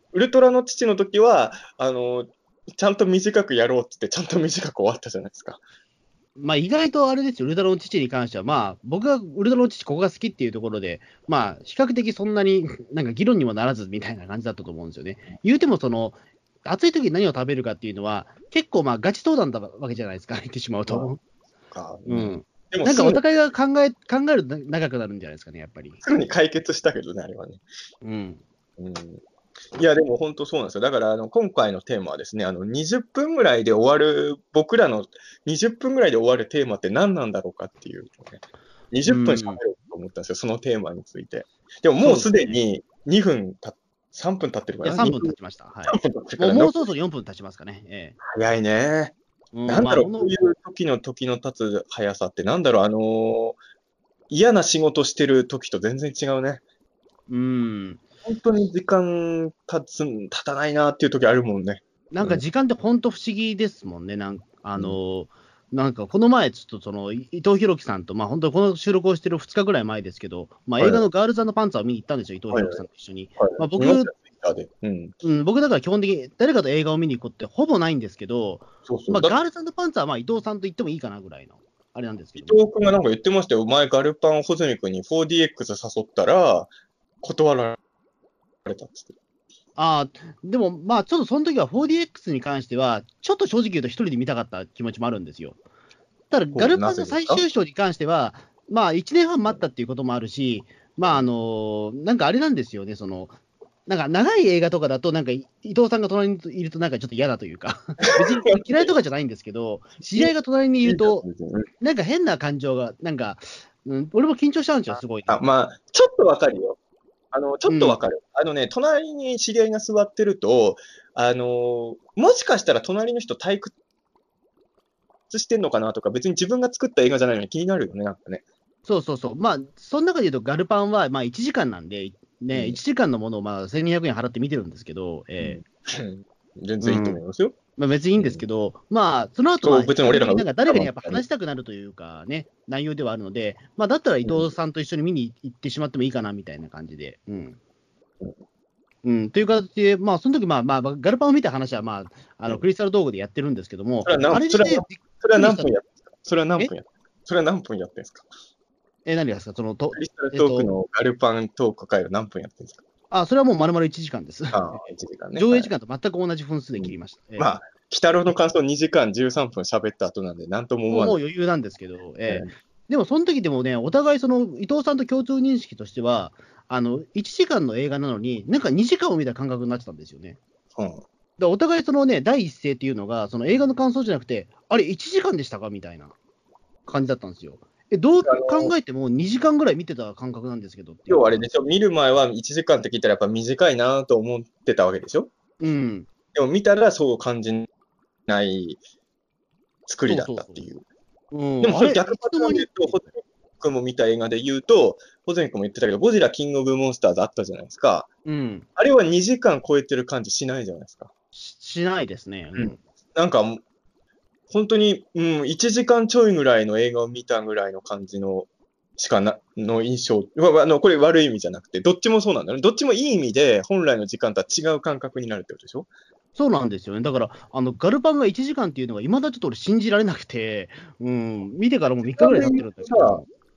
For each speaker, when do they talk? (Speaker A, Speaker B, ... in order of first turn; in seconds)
Speaker A: 0.1-5.6, 21.7-23.2, 26.0-27.6, 28.8-29.2, 29.8-45.4, 45.9-46.9, 48.2-49.2, 49.7-53.6, 54.3-56.6, 58.2-62.4, 70.8-71.0, 72.5-72.8, 73.4-75.1, 78.9-79.4, 82.4-86.7, 87.2-87.8, 88.7-89.1, 96.5-97.4, 108.2-108.9, 110.8-111.7, 114.9-116.8, 117.3-123.7, 125.3-128.4, 132.5-132.8, 135.4-137.6, 138.2-138.4, 139.6-141.2, 144.2-144.5, 154.0-158.3, 159.9-162.8, 164.5-165.7, 166.8-171.2, 180.8-181.0, 188.3-188.7, 191.1-195.3, 196.3-197.7, 198.3-198.8, 199.9-200.8, 201.6-208.1, 208.8-211.1, 212.6-213.6, 214.5-225.9, 232.1-233.2
Speaker B: 6.4-21.2, 22.1-26.0, 28.0-28.4, 39.1-39.6, 42.0-42.6, 44.8-48.2, 49.5-50.4, 57.3-58.0, 62.1-74.1, 75.2-82.6, 89.8-95.6, 96.3-111.3, 111.8-115.4, 117.7-118.0, 128.9-135.6, 136.8-137.2, 137.8-147.6, 149.0-155.7, 159.1-160.7, 163.1-164.8, 165.4-167.5, 170.9-180.4, 181.4-186.1, 186.9-191.4, 195.6-196.1, 200.1-200.7, 201.3-203.0, 208.3-208.7, 211.3-212.8, 226.4-233.3